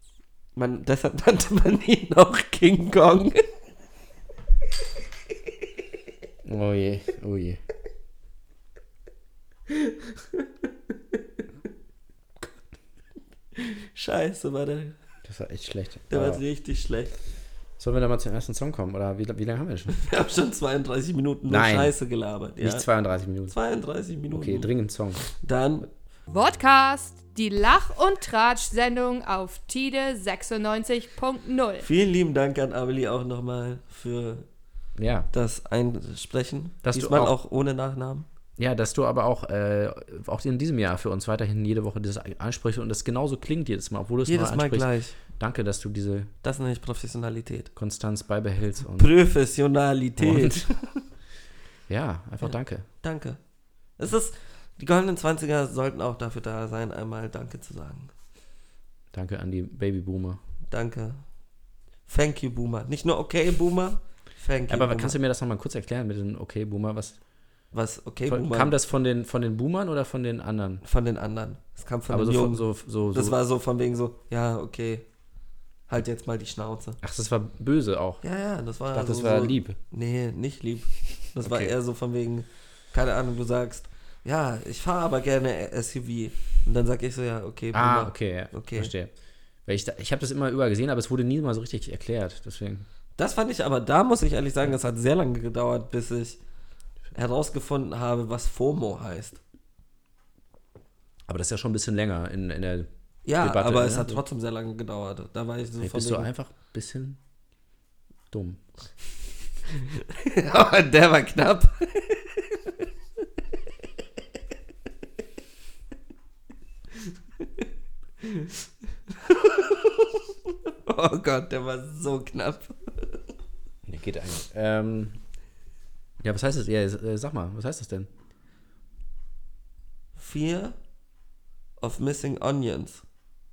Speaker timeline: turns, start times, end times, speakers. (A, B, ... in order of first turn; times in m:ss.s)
0:00.6-0:03.5 A
0:06.4-0:07.6 B
0:09.7-0:10.5 A
0:13.6-0:15.0 A
0:15.2-0:16.4 B
0:16.1-0:17.1 A
0:17.8-0:20.0 B
0:19.9-0:22.9 A
0:21.5-0:21.9 B
0:22.6-0:23.6 B
0:23.5-0:24.7 A
0:24.3-0:25.2 B
0:25.2-0:25.9 A
0:26.3-0:31.9 C
0:31.8-0:34.5 A
0:35.0-0:35.3 B
0:35.3-0:38.3 A
0:36.8-0:37.4 B
0:38.6-0:46.3 B
0:44.2-0:45.2 A
0:46.4-0:47.7 A
0:47.8-0:49.1 B
0:49.0-0:51.1 A
0:50.2-0:50.6 B
0:51.9-0:52.8 B
0:52.4-0:53.4 A
0:54.0-0:58.1 A
0:59.1-1:00.4 B
1:00.7-1:01.3 A
1:02.1-1:05.2 A
1:04.7-1:07.2 B
1:07.7-1:08.8 A
1:08.3-1:10.8 B
1:10.8-1:15.1 A
1:12.1-1:13.4 B
1:15.9-1:17.0 A
1:17.0-1:18.2 B
1:18.2-1:28.9 A
1:18.9-1:19.8 B
1:21.4-1:21.7 B
1:27.7-1:29.1 B
1:29.6-1:32.9 B
1:33.2-1:36.4 A
1:37.1-1:39.4 A
1:41.3-1:44.2 B
1:43.2-1:46.3 A
1:45.8-1:47.2 B
1:48.3-1:48.6 B
1:49.7-1:52.8 A
1:58.2-1:58.6 A
1:59.1-2:03.2 A
2:03.9-2:05.2 B
2:06.2-2:08.1 B
2:10.2-2:10.8 A
2:11.8-2:13.0 A